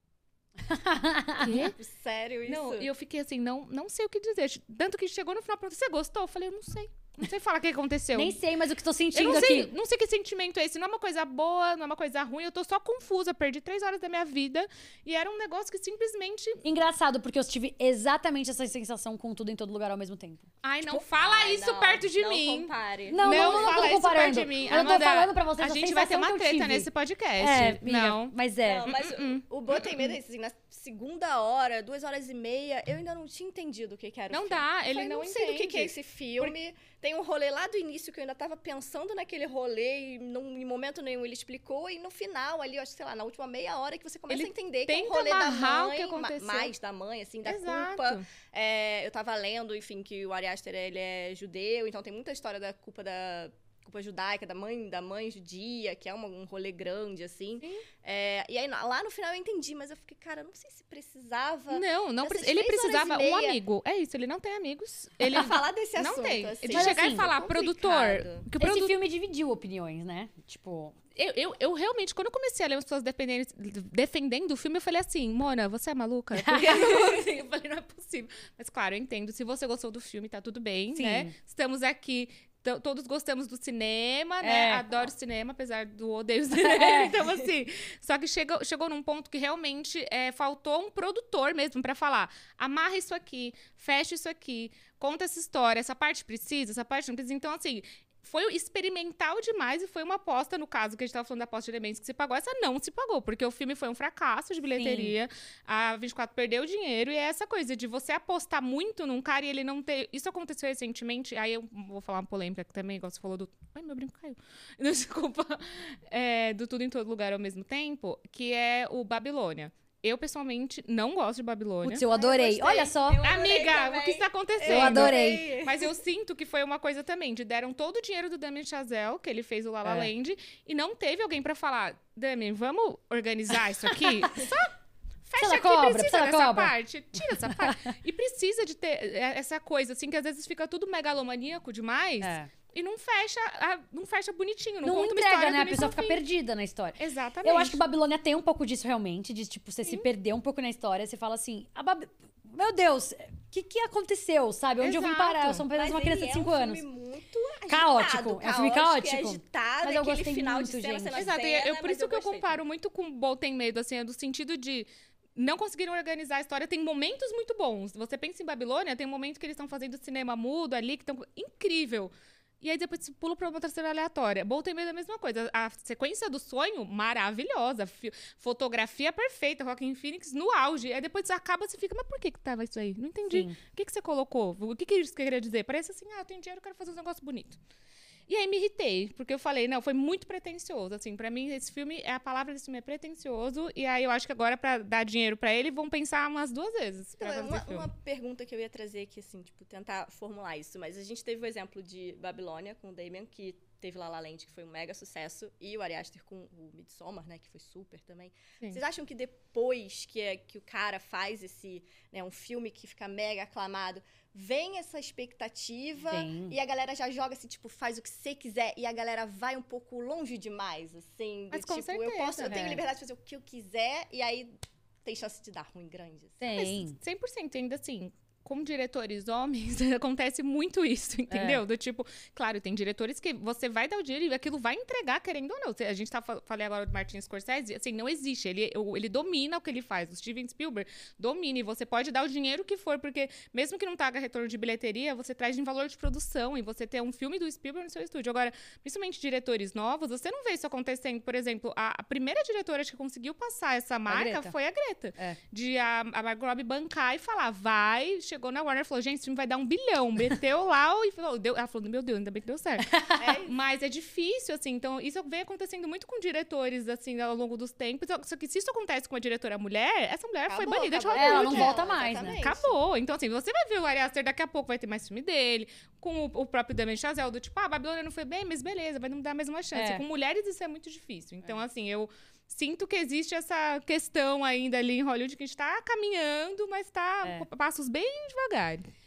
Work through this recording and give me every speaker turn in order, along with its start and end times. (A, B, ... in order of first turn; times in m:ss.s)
0:00.6-0:01.7 A
0:01.4-0:01.8 B
0:01.5-0:02.9 C
0:02.5-0:08.4 B
0:08.1-0:09.7 A
0:09.1-0:16.6 B
0:16.6-0:21.0 A
0:20.6-0:28.3 B
0:21.2-0:24.0 C
0:23.1-0:26.9 A
0:27.4-0:28.9 A
0:28.6-1:03.6 C
0:29.0-0:30.2 B
0:34.3-0:36.5 B
0:44.3-0:46.7 B
0:47.4-0:48.2 B
1:01.7-1:08.9 B
1:05.2-1:08.4 C
1:06.7-1:07.3 A
1:08.6-1:11.0 A
1:11.2-2:02.0 B
1:16.4-1:17.2 A
1:21.0-1:21.3 A
1:24.4-1:24.9 A
1:26.5-1:27.2 A
1:44.8-1:45.2 A
2:01.8-2:03.2 A
2:02.1-2:05.9 C
2:03.2-2:14.7 B
2:04.6-2:05.5 A
2:09.8-2:10.1 A
2:13.9-2:14.5 A
2:15.3-2:26.2 B
2:15.4-2:17.8 A
2:22.2-2:22.5 A
2:24.8-2:36.8 A
2:27.0-2:27.8 B
2:34.8-2:35.6 B
2:35.7-2:42.6 C
2:37.7-2:41.3 A
2:41.1-3:07.6 B
3:03.3-3:03.6 A
3:08.3-3:17.9 B
3:17.2-3:44.5 C
3:36.1-3:36.6 A
3:41.5-3:42.7 B
3:42.5-3:42.8 A
3:45.0-3:46.9 C
3:46.4-3:47.0 A
3:47.0-4:22.9 B
3:51.3-3:51.6 A
4:14.1-4:14.5 A
4:22.8-4:23.2 A
4:23.2-4:23.5 C
4:23.4-4:48.8 B
4:30.5-4:32.8 C
4:31.1-4:32.4 A
4:39.7-4:40.0 A